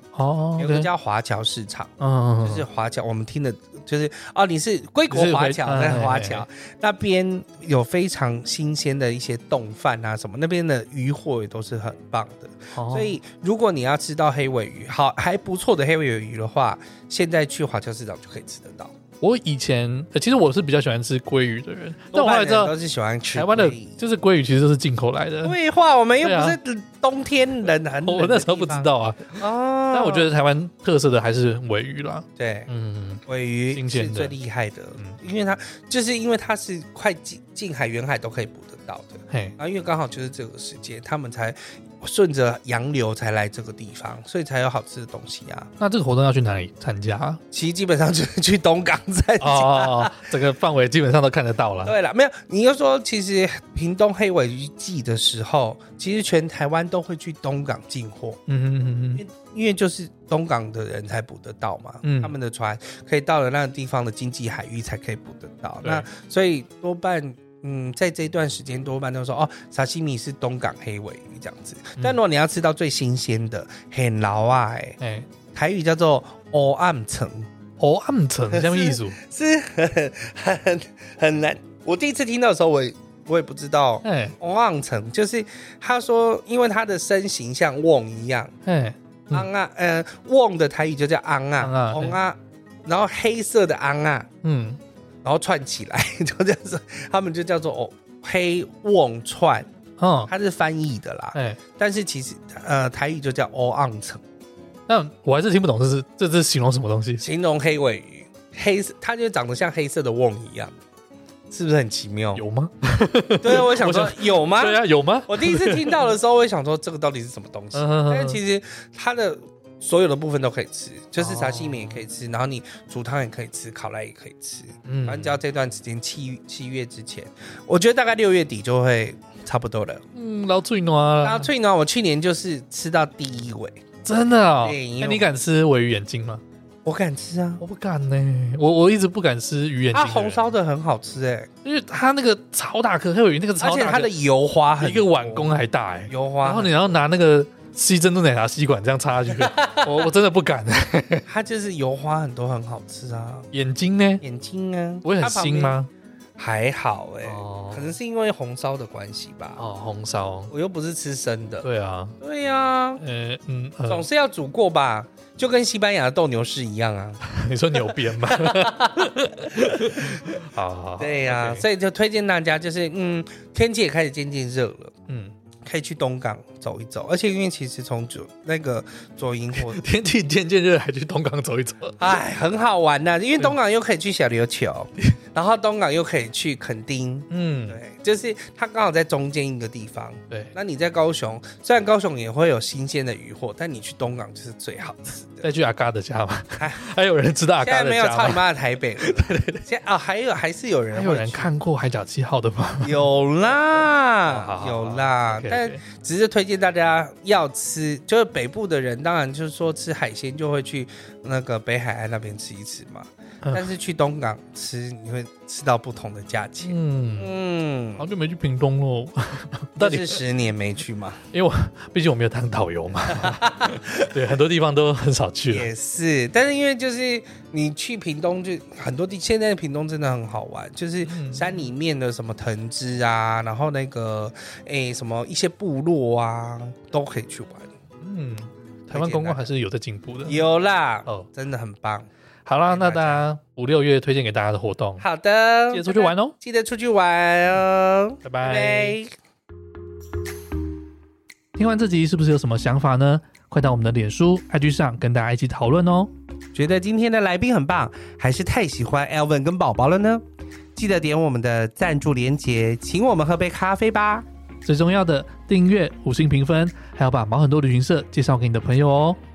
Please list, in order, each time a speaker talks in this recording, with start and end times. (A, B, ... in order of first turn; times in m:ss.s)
0:00.1-0:00.9 A
0:00.6-0:18.9 B
0:02.0-0:02.6 A
0:05.1-0:06.4 A
0:12.7-0:13.2 A
0:19.2-0:22.7 A
0:22.1-0:24.0 B
0:23.3-0:25.6 A
0:25.4-0:30.3 B
0:26.2-0:26.6 A
0:28.0-0:29.4 A
0:29.9-0:34.3 A
0:32.4-0:32.7 B
0:33.3-0:45.7 B
0:39.3-0:39.6 A
0:45.8-0:47.4 A
0:47.5-0:50.2 B
0:49.4-0:51.9 A
0:51.8-0:58.4 B
0:58.5-0:59.2 A
0:59.2-1:15.0 B
1:02.0-1:02.4 A
1:15.0-1:15.3 A
1:15.5-1:17.5 B
1:17.8-1:19.2 A
1:18.5-1:28.6 B
1:24.0-1:24.4 A
1:28.6-1:29.5 A
1:29.3-1:34.3 B
1:31.6-1:32.2 A
1:34.4-1:34.8 A
1:35.2-1:39.7 B
1:40.0-1:40.3 A
1:40.3-1:44.2 B
1:41.3-1:41.6 A
1:44.9-1:47.2 A
1:47.2-1:50.7 B
1:51.5-1:52.4 B
1:52.4-1:56.1 A
1:53.4-2:10.0 B
1:57.7-1:58.4 A
2:01.2-2:02.0 A
2:04.9-2:05.4 A
2:10.2-2:11.5 A
2:11.2-2:13.8 B
2:14.0-2:16.4 A
2:14.6-2:15.3 B
2:16.9-2:17.6 B
2:17.6-2:20.4 A
2:19.9-2:21.5 B
2:21.6-2:24.1 A
2:23.6-2:25.5 B
2:24.8-2:31.3 A
2:26.1-2:26.9 B
2:29.3-2:30.1 B
2:31.3-2:33.5 B
2:33.5-2:34.2 A
2:34.2-2:35.8 B
2:35.0-2:35.9 A
2:36.4-2:39.6 B
2:37.2-2:38.0 A
2:39.6-2:40.5 A
2:40.5-2:41.7 B
2:41.6-2:42.2 A
2:42.2-2:43.0 B
2:43.0-2:44.0 A
2:43.9-2:47.2 B
2:47.2-2:51.6 A
2:47.8-2:50.4 B
2:51.0-2:54.9 B
2:55.1-2:55.3 A
2:55.6-2:59.8 B
2:59.5-3:02.1 A
3:02.0-3:15.5 B
3:07.3-3:07.8 A
3:15.4-3:18.4 A
3:16.6-3:16.8 B
3:17.6-3:21.5 B
3:19.0-3:19.6 A
3:20.9-3:23.1 A
3:22.8-3:38.1 B
3:24.3-3:25.8 A
3:33.4-3:33.7 A
3:36.6-3:37.3 A
3:38.0-3:40.2 A
3:39.8-3:41.2 B
3:41.3-3:45.7 A
3:43.2-3:44.1 B
3:45.5-3:57.7 B
3:51.0-3:51.7 A
3:58.0-4:00.4 A
3:58.9-3:59.5 B
4:00.3-4:02.1 B
4:02.5-4:05.0 A
4:02.7-4:03.3 B
4:05.0-4:09.1 B
4:05.7-4:06.4 A
4:08.2-4:09.0 A
4:11.6-4:16.1 A
4:16.6-4:20.2 B
4:20.8-4:24.2 B
4:24.6-4:29.2 A